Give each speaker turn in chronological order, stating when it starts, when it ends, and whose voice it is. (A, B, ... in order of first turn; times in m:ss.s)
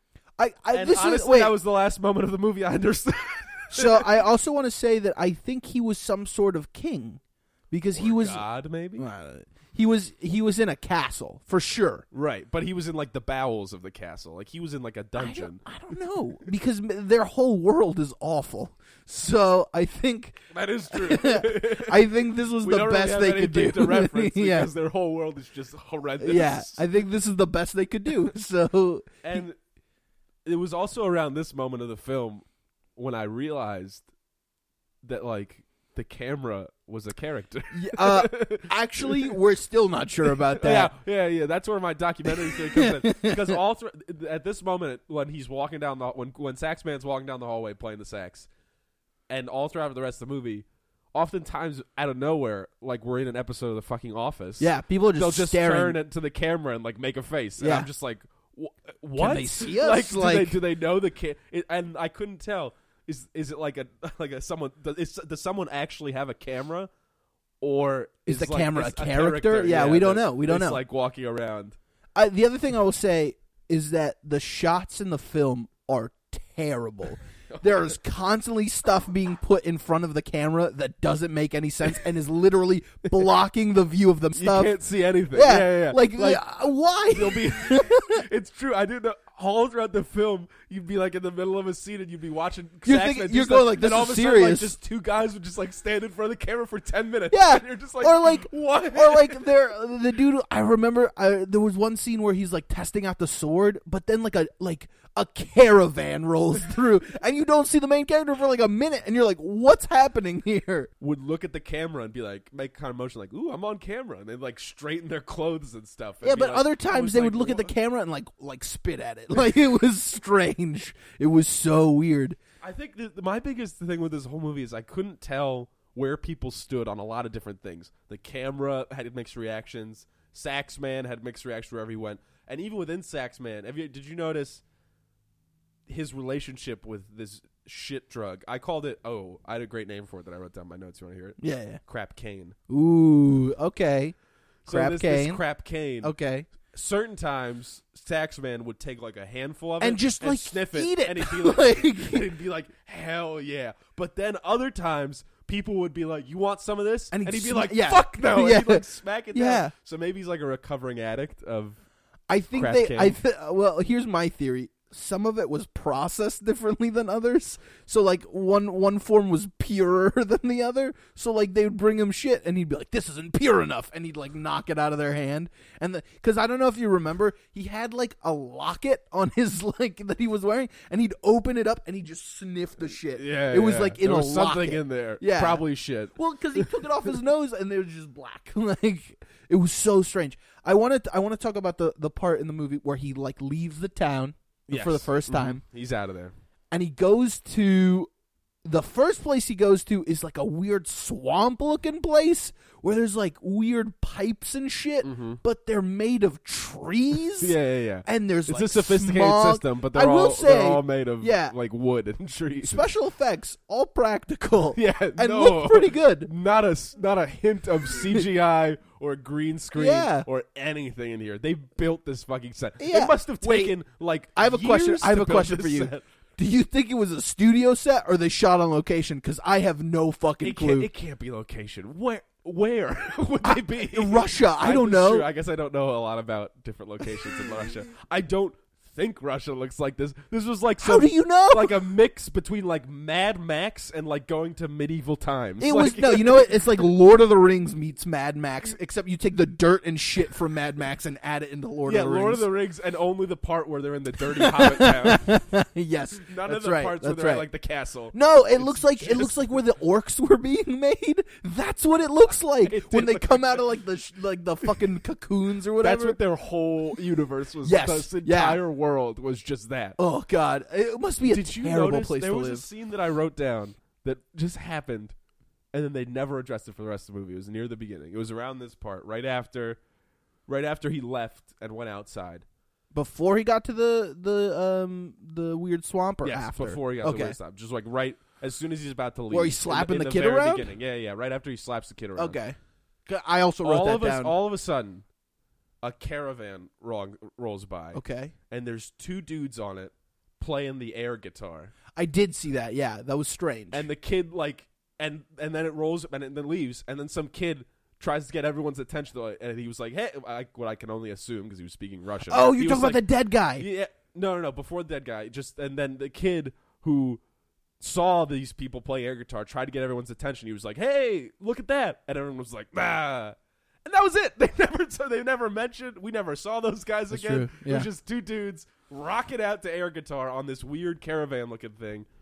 0:00.4-0:01.5 A
0:00.7-0:04.1 B
0:03.7-0:12.0 A
0:07.9-0:09.0 B
0:12.1-0:15.6 B
0:15.2-0:24.7 A
0:20.5-0:26.8 B
0:26.2-0:29.5 A
0:29.2-0:29.6 B
0:30.4-0:32.4 B
0:33.0-0:34.1 B
0:35.0-0:39.3 B
0:37.7-0:40.9 A
0:40.2-0:48.5 B
0:42.3-0:43.6 A
0:49.3-1:06.9 B
0:54.6-0:56.0 A
0:57.6-0:57.9 A
0:59.2-1:00.6 A
1:07.6-1:11.8 B
1:08.3-1:10.8 A
1:12.1-1:24.8 A
1:17.5-1:17.9 B
1:24.3-1:26.4 B
1:25.3-1:28.2 A
1:27.1-1:39.4 B
1:32.8-1:34.7 A
1:37.3-1:50.9 A
1:51.0-1:57.7 B
1:56.2-2:02.4 A
2:02.6-2:14.6 B
2:15.9-2:22.6 B
2:21.4-2:21.8 A
2:22.7-2:24.1 A
2:24.6-2:26.1 B
2:24.7-2:25.4 A
2:26.0-2:26.5 A
2:26.7-2:41.8 B
2:29.8-2:32.3 A
2:37.1-2:39.7 A
2:42.3-3:15.6 A
2:42.5-2:43.2 B
3:03.1-3:07.1 B
3:14.7-3:16.3 B
3:16.7-3:18.1 A
3:18.6-3:31.5 A
3:25.0-3:25.4 B
3:27.4-3:32.9 B
3:32.6-3:36.3 A
3:34.7-3:46.0 B
3:39.7-3:40.2 A
3:42.8-3:43.7 A
3:44.4-3:50.9 A
3:50.4-4:06.9 B
3:53.4-3:55.3 A
4:00.8-4:01.8 A
4:05.6-4:12.5 A
4:11.8-4:15.3 B
4:14.3-4:17.5 A
4:16.2-4:19.5 B
4:18.1-4:26.2 A
4:22.6-4:23.6 B
4:24.6-4:24.9 B
4:25.8-4:30.0 B
4:27.6-4:28.6 A
4:30.0-4:32.6 A
4:31.2-4:35.1 B
4:35.7-4:39.8 B
4:40.5-4:42.4 B
4:42.9-4:47.4 A
4:46.2-4:52.4 B
4:49.3-4:50.7 A
4:52.2-4:54.4 A
4:53.6-4:55.0 B
4:55.8-5:01.7 B
4:57.9-4:58.3 A
5:02.0-5:03.8 A
5:03.7-5:17.2 B
5:12.3-5:13.6 A
5:17.8-5:32.0 B
5:27.1-5:27.9 A